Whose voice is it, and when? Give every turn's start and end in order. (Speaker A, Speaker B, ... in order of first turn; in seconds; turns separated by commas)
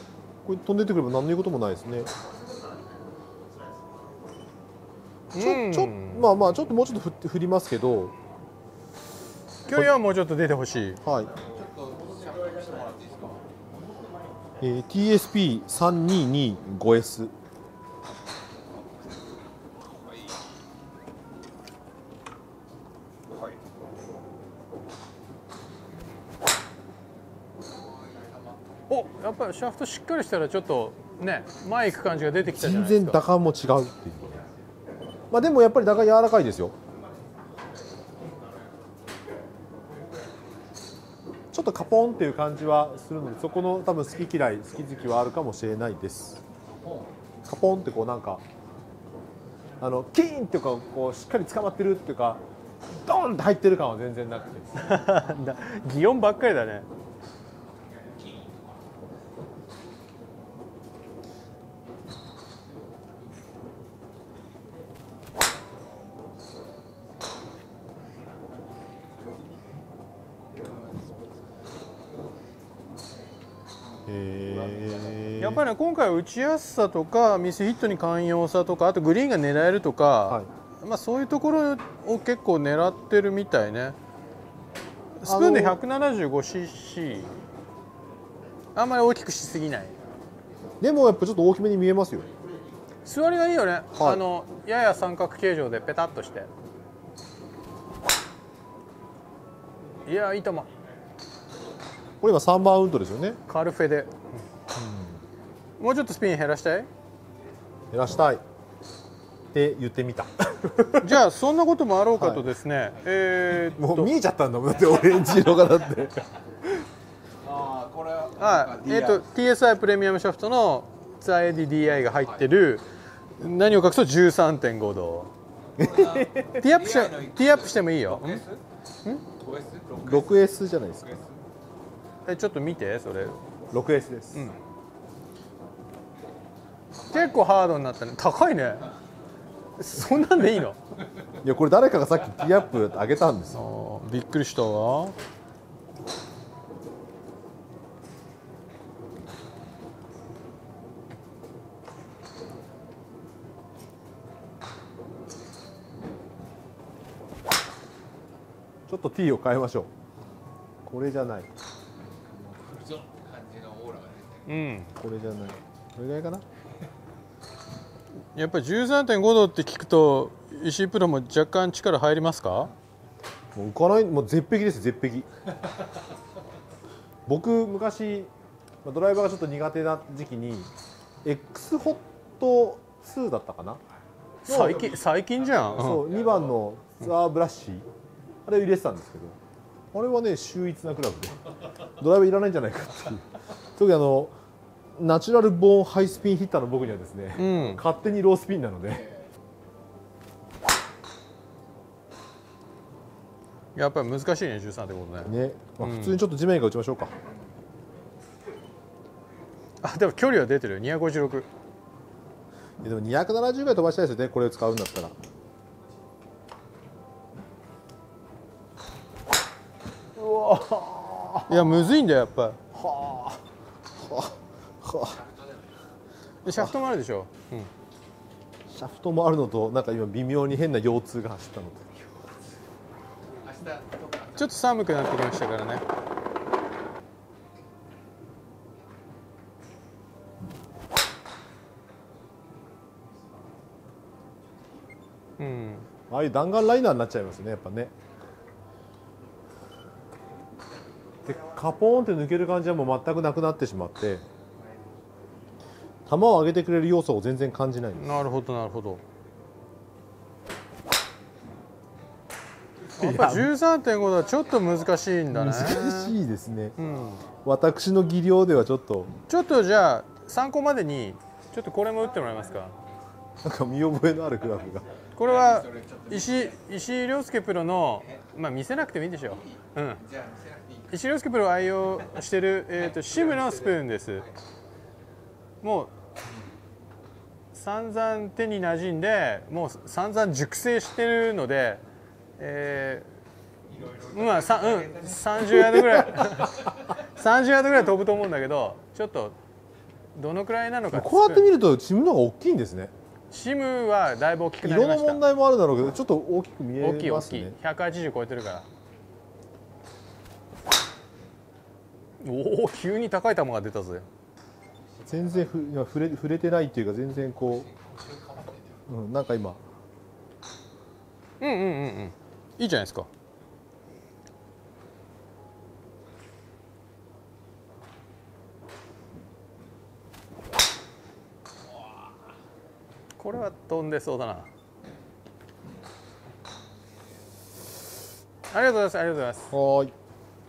Speaker A: 0.4-2.1, Speaker B: 5.3-6.3, Speaker A: 5.3-8.1, Speaker B: 9.7-11.0, Speaker A: 11.0-11.3, Speaker C: 11.3-13.4, Speaker A: 14.6-17.3, Speaker C: 27.9-28.6, Speaker B: 28.9-33.2, Speaker A: 32.4-34.4, Speaker A: 35.3-36.7, Speaker A: 41.5-46.4, Speaker C: 46.8-47.1, Speaker A: 47.4-48.4, Speaker A: 49.8-55.0, Speaker B: 54.8-56.9, Speaker C: 70.7-71.0, Speaker A: 74.0-75.6, Speaker B: 75.4-84.0, Speaker B: 85.2-87.3, Speaker A: 85.2-85.8, Speaker B: 88.7-90.0, Speaker A: 90.8-92.3, Speaker B: 93.0-96.5, Speaker A: 94.0-94.2, Speaker B: 100.0-100.7, Speaker A: 102.2-103.4, Speaker B: 103.5-104.4, Speaker A: 104.7-105.2, Speaker B: 105.8-106.9, Speaker A: 107.9-108.4, Speaker A: 109.5-111.2, Speaker B: 111.0-114.1, Speaker A: 112.2-112.5, Speaker A: 113.7-116.5, Speaker C: 117.4-119.2, Speaker B: 118.4-122.9, Speaker B: 123.4-125.3, Speaker C: 125.8-128.6, Speaker A: 125.8-126.4, Speaker B: 126.5-128.4, Speaker C: 129.4-130.3, Speaker A: 130.0-131.1, Speaker C: 131.1-131.4, Speaker B: 132.2-133.4, Speaker A: 133.7-134.5, Speaker B: 137.1-138.9, Speaker B: 139.8-140.8, Speaker A: 141.4-143.6, Speaker B: 143.5-145.1, Speaker A: 158.9-159.9, Speaker A: 160.8-161.5, Speaker C: 162.2-164.5, Speaker B: 164.5-164.9, Speaker A: 164.9-166.4, Speaker B: 168.3-172.7, Speaker A: 173.5-175.3, Speaker A: 177.3-178.3, Speaker A: 178.8-180.7, Speaker A: 181.2-183.8, Speaker B: 184.4-186.1, Speaker A: 184.4-185.0, Speaker A: 185.7-187.9, Speaker A: 188.4-189.4, Speaker A: 189.9-194.3, Speaker A: 194.9-199.2, Speaker B: 197.3-197.8, Speaker B: 203.7-206.2, Speaker A: 205.2-207.1, Speaker B: 209.8-211.5, Speaker A: 212.8-215.2, Speaker A: 220.2-221.8, Speaker B: 221.5-222.7, Speaker A: 222.7-223.4, Speaker A: 223.9-225.2, Speaker C: 225.2-225.6, Speaker B: 226.4-227.7, Speaker A: 226.5-226.7, Speaker A: 228.7-231.9, Speaker C: 233.4-234.5, Speaker B: 234.4-235.8, Speaker B: 245.4-245.9, Speaker A: 246.1-247.9, Speaker A: 251.2-254.2, Speaker A: 256.1-258.2, Speaker B: 257.9-259.0, Speaker A: 263.0-263.5, Speaker B: 263.0-266.2, Speaker A: 265.3-266.8, Speaker B: 266.8-267.2, Speaker A: 267.4-269.1, Speaker B: 269.3-272.8, Speaker A: 273.4-274.9, Speaker B: 275.1-280.0, Speaker C: 275.2-276.6, Speaker C: 279.4-280.9, Speaker B: 280.9-284.3, Speaker B: 285.6-285.9, Speaker B: 287.5-291.8, Speaker B: 292.4-293.1, Speaker C: 293.7-295.2, Speaker B: 294.0-299.3, Speaker A: 295.4-296.0, Speaker B: 300.1-301.5, Speaker A: 300.9-302.9, Speaker B: 303.3-305.2, Speaker A: 304.6-307.6, Speaker B: 306.8-308.7, Speaker B: 312.2-314.1, Speaker A: 315.0-317.7, Speaker C: 317.8-318.6, Speaker A: 318.9-319.6, Speaker B: 321.4-323.1, Speaker B: 333.2-334.5, Speaker B: 338.5-339.5, Speaker A: 339.5-339.9